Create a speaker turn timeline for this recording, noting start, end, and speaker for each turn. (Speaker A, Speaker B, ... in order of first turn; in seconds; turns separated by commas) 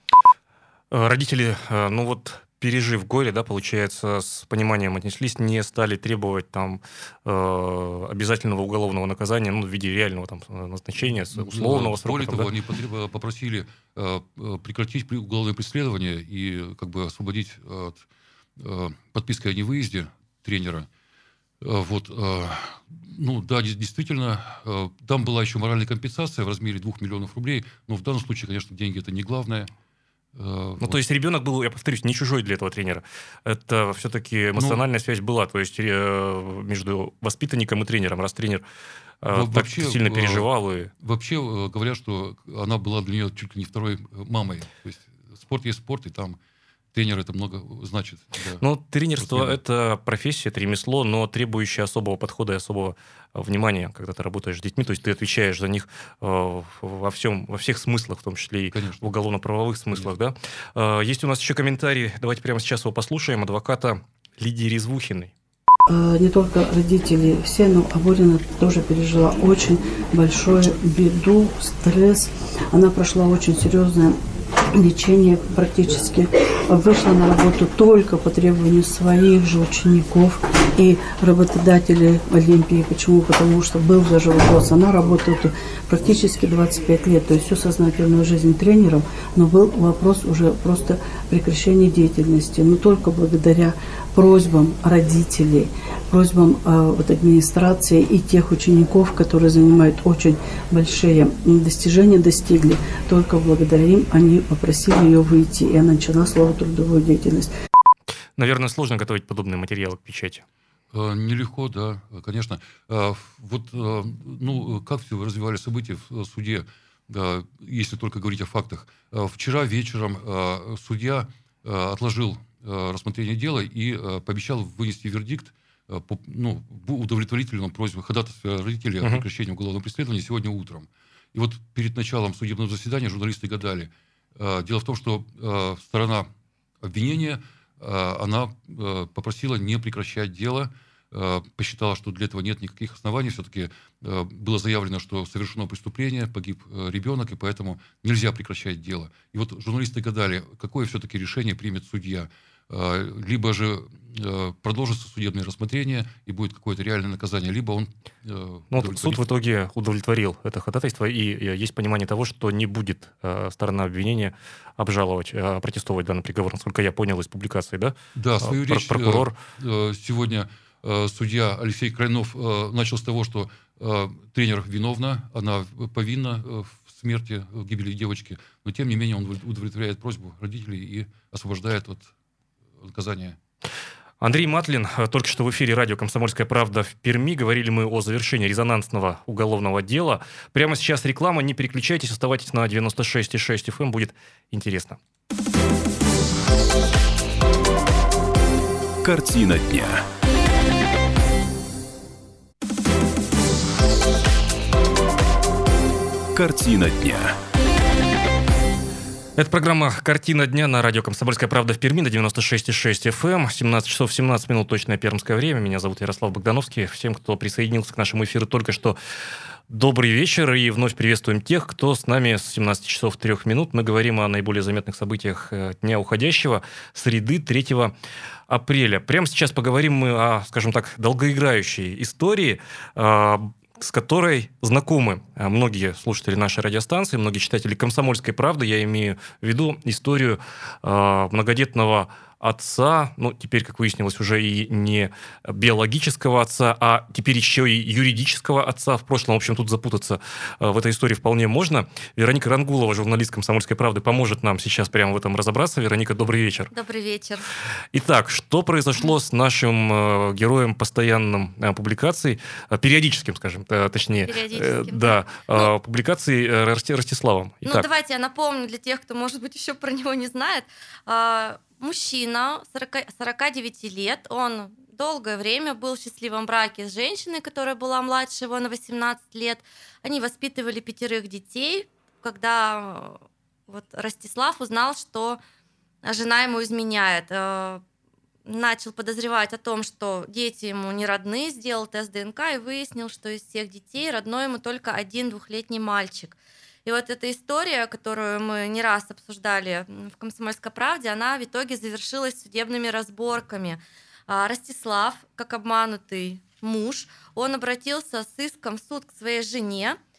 Speaker A: 0.9-12.5, Speaker B: 11.1-18.1, Speaker B: 18.6-20.9, Speaker B: 21.6-29.7, Speaker B: 30.4-31.0, Speaker A: 30.8-38.6, Speaker A: 39.2-40.9, Speaker B: 39.3-40.5, Speaker B: 41.0-46.4, Speaker B: 46.9-48.6, Speaker A: 48.6-65.3, Speaker B: 49.2-49.6, Speaker B: 58.7-59.1, Speaker C: 65.9-74.2, Speaker C: 74.7-107.5, Speaker A: 108.4-110.5, Speaker B: 110.9-136.3, Speaker B: 136.8-159.2, Speaker A: 158.7-169.3, Speaker B: 168.2-182.1, Speaker B: 182.8-183.4, Speaker A: 184.2-195.0, Speaker D: 199.0-200.1, Speaker D: 206.3-207.4, Speaker A: 209.4-219.0, Speaker A: 219.7-227.9, Speaker A: 228.5-256.7, Speaker E: 256.7-257.5, Speaker A: 257.9-267.9, Speaker E: 264.2-265.7, Speaker E: 267.6-285.4, Speaker E: 286.0-287.8, Speaker E: 288.5-310.0